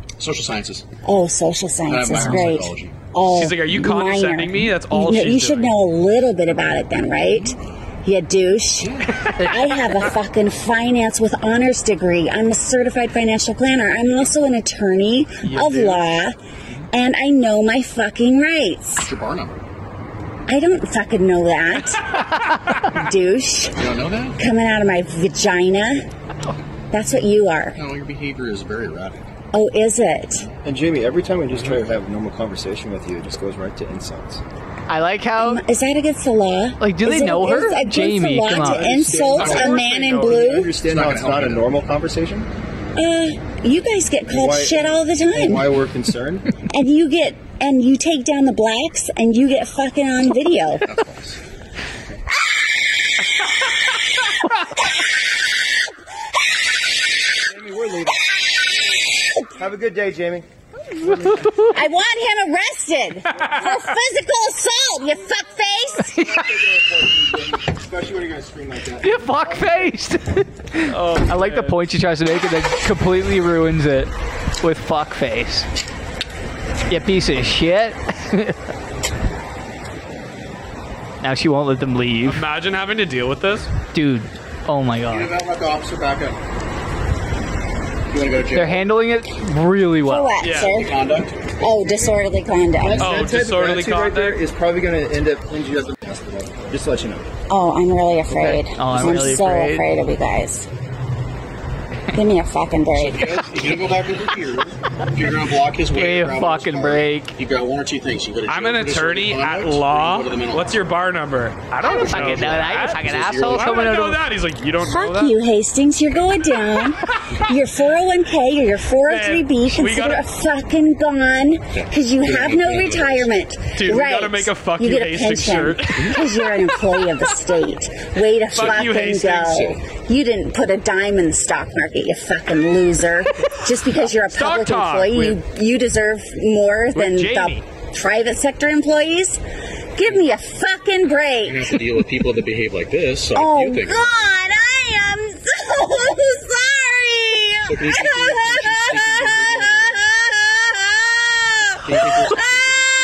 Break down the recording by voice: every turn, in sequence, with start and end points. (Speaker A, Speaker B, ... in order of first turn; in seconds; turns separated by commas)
Speaker A: 0.2-0.9, Speaker B: 1.0-16.4, Speaker A: 1.9-3.0, Speaker C: 3.2-5.8, Speaker A: 8.8-9.2, Speaker C: 15.4-16.2, Speaker B: 16.9-19.1, Speaker A: 19.0-19.6, Speaker B: 20.5-22.1, Speaker B: 22.9-23.7, Speaker A: 23.7-24.4, Speaker B: 24.4-26.0, Speaker B: 26.9-27.8, Speaker A: 27.7-29.3, Speaker B: 29.5-30.5, Speaker D: 30.6-34.4, Speaker E: 34.9-35.6, Speaker B: 35.4-40.8, Speaker E: 36.8-38.9, Speaker D: 38.6-42.5, Speaker C: 39.1-40.6, Speaker A: 39.4-39.7, Speaker A: 40.7-41.7, Speaker B: 43.0-45.7, Speaker D: 44.3-46.5, Speaker B: 46.7-50.8, Speaker D: 50.9-51.3, Speaker D: 57.5-58.2, Speaker B: 58.6-59.5, Speaker D: 59.6-60.5, Speaker D: 61.0-61.5, Speaker E: 61.0-61.7, Speaker B: 61.7-66.1, Speaker C: 63.4-63.7, Speaker D: 66.1-69.9, Speaker E: 69.0-75.7, Speaker C: 70.9-71.8, Speaker E: 76.9-78.6, Speaker E: 81.2-82.4, Speaker C: 82.2-83.7, Speaker E: 83.9-85.3, Speaker A: 85.1-86.4, Speaker A: 88.1-88.9, Speaker E: 88.5-90.3, Speaker B: 90.0-90.9, Speaker C: 90.4-90.8, Speaker A: 90.5-91.6, Speaker B: 91.6-93.2, Speaker D: 92.8-97.3, Speaker C: 93.0-94.4, Speaker B: 97.5-100.7, Speaker E: 98.7-99.8, Speaker B: 102.1-103.4, Speaker A: 102.9-110.8, Speaker E: 105.9-107.4, Speaker C: 108.5-115.3, Speaker E: 111.8-114.2, Speaker A: 112.0-113.9, Speaker B: 114.8-139.4, Speaker C: 119.0-120.2, Speaker A: 121.7-123.4, Speaker C: 123.7-126.2, Speaker C: 128.5-129.8, Speaker C: 133.9-135.4, Speaker C: 136.9-137.6, Speaker B: 139.9-141.8, Speaker A: 141.4-144.1, Speaker B: 143.3-152.5, Speaker A: 147.6-150.0, Speaker A: 151.8-152.7